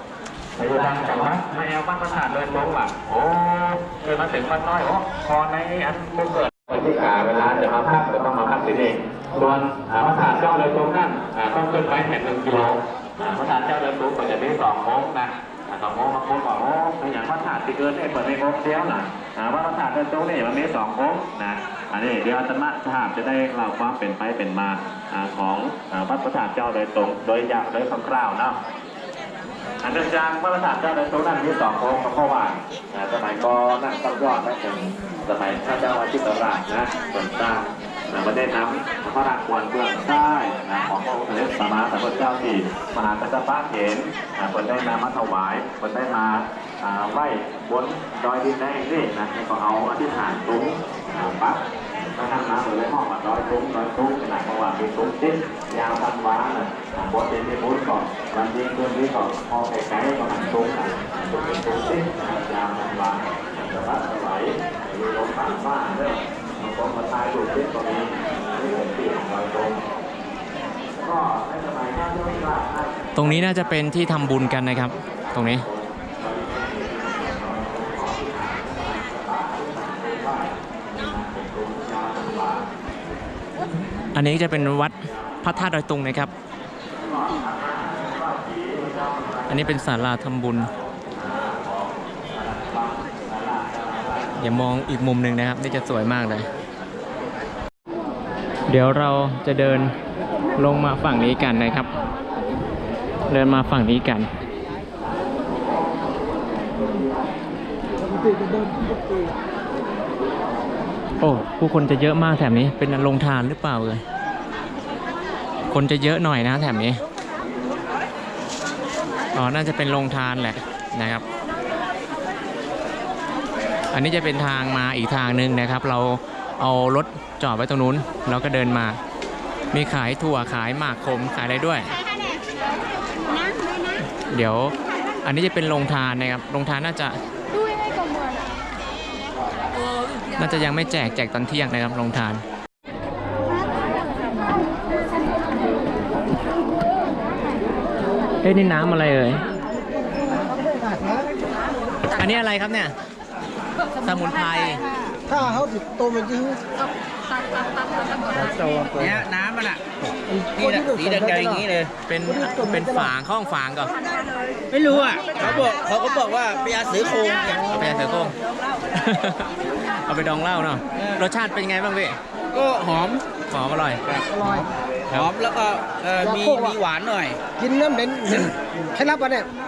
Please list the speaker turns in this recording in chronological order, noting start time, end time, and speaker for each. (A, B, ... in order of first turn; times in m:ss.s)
0:00.6-0:28.6 A
0:29.8-1:09.8 A
1:11.0-1:14.3 A
1:13.1-1:15.6 B
1:15.2-1:22.7 A
1:24.1-1:26.3 B
1:27.0-1:29.7 A
1:29.5-1:30.7 B
1:31.0-1:34.3 A
1:34.4-1:36.5 B
1:38.7-1:39.9 B
1:40.6-1:41.9 B
1:43.3-1:44.3 B
1:51.2-1:54.0 B
1:55.7-1:57.0 B
1:59.3-2:01.2 B
2:03.9-2:09.0 B
2:09.7-2:11.9 B
2:14.2-2:17.2 B
2:20.4-2:22.4 B
2:28.4-2:29.4 B
2:30.1-2:31.4 C
2:32.1-2:32.9 B
2:34.0-2:35.6 B
2:35.3-2:36.6 C
2:38.3-2:39.8 D
2:38.4-2:39.1 C
2:40.3-2:41.7 C
2:40.6-2:41.9 D
2:42.1-2:44.0 B
2:42.3-2:43.1 C
2:44.7-2:47.6 D
2:45.4-2:45.8 B
2:47.3-2:47.9 C
2:47.6-2:52.2 B
2:52.5-2:53.2 D
2:53.5-2:54.0 B
2:54.3-2:54.7 C
2:55.1-2:57.4 D
2:56.2-2:56.8 C
2:57.6-2:59.5 C